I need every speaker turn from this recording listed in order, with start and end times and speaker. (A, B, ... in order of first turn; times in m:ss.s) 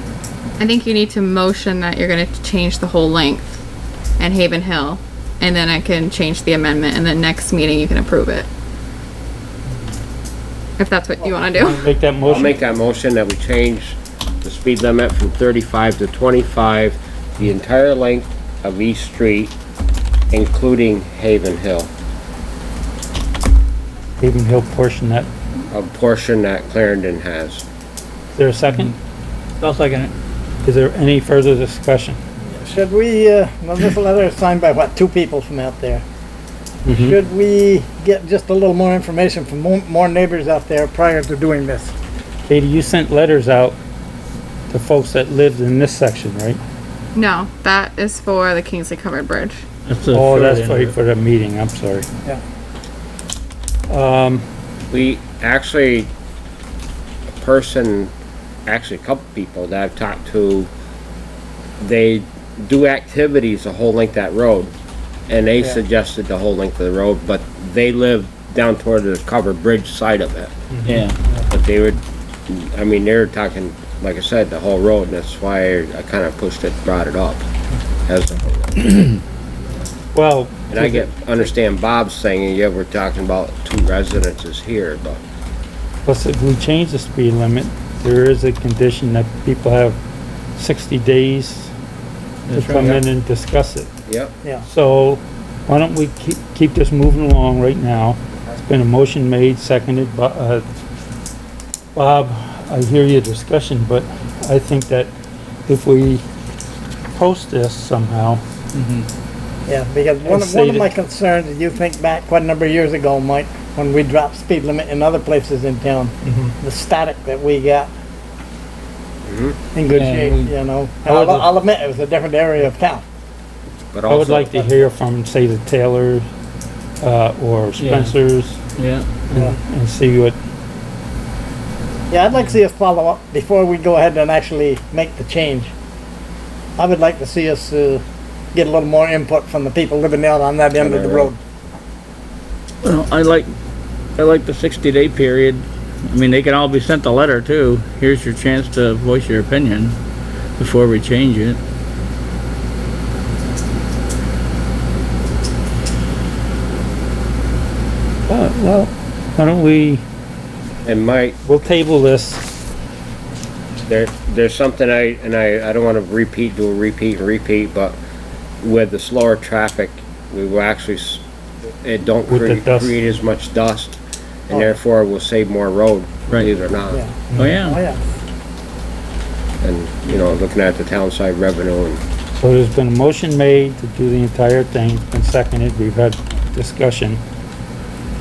0:00.6-0:03.4 A
0:04.2-0:08.5 A
0:10.8-0:11.9 A
0:11.6-0:12.6 B
0:12.3-0:19.5 C
0:20.3-0:21.9 C
0:24.2-0:25.3 B
0:25.7-0:27.6 C
0:28.4-0:29.0 B
0:29.6-0:30.1 D
0:30.6-0:32.2 B
0:32.5-0:36.0 E
0:36.8-0:37.2 B
0:36.9-0:42.0 E
0:42.5-0:43.8 B
0:44.7-0:46.6 B
0:47.1-0:49.6 A
0:49.9-0:50.9 D
0:50.1-0:52.1 B
0:53.9-0:54.4 B
0:54.9-0:56.1 C
0:57.4-0:58.1 C
0:58.7-1:00.7 C
1:01.8-1:04.7 C
1:05.3-1:10.5 C
1:10.9-1:11.2 D
1:11.5-1:17.5 C
1:18.1-1:18.8 C
1:20.1-1:21.1 B
1:20.7-1:25.2 C
1:26.0-1:30.0 B
1:30.6-1:31.7 B
1:32.5-1:33.0 D
1:32.6-1:33.9 B
1:34.1-1:34.3 C
1:34.7-1:40.6 B
1:42.0-1:45.1 B
1:45.7-1:46.2 B
1:47.1-1:48.4 B
1:48.7-1:49.1 D
1:49.7-1:57.9 E
1:50.2-1:50.9 B
1:59.2-1:59.6 C
1:59.7-2:03.0 E
1:59.9-2:00.6 D
2:01.1-2:01.4 B
2:03.9-2:04.6 C
2:04.1-2:06.3 B
2:07.0-2:08.6 B
2:07.8-2:08.1 D
2:08.8-2:09.1 D
2:09.3-2:10.4 B
2:12.1-2:15.7 E
2:16.8-2:18.0 E
2:18.5-2:21.4 E
2:20.8-2:21.3 C
2:22.8-2:23.5 D
2:24.2-2:30.0 D
2:30.6-2:31.6 D
2:38.3-2:40.0 B
2:40.8-2:41.4 C
2:41.4-2:42.5 B
2:43.9-2:48.0 C
2:48.6-2:57.0 C
2:52.3-2:53.0 B
2:56.9-2:58.2 E
2:57.3-2:57.8 D
2:59.6-3:02.0 C
3:02.4-3:07.2 B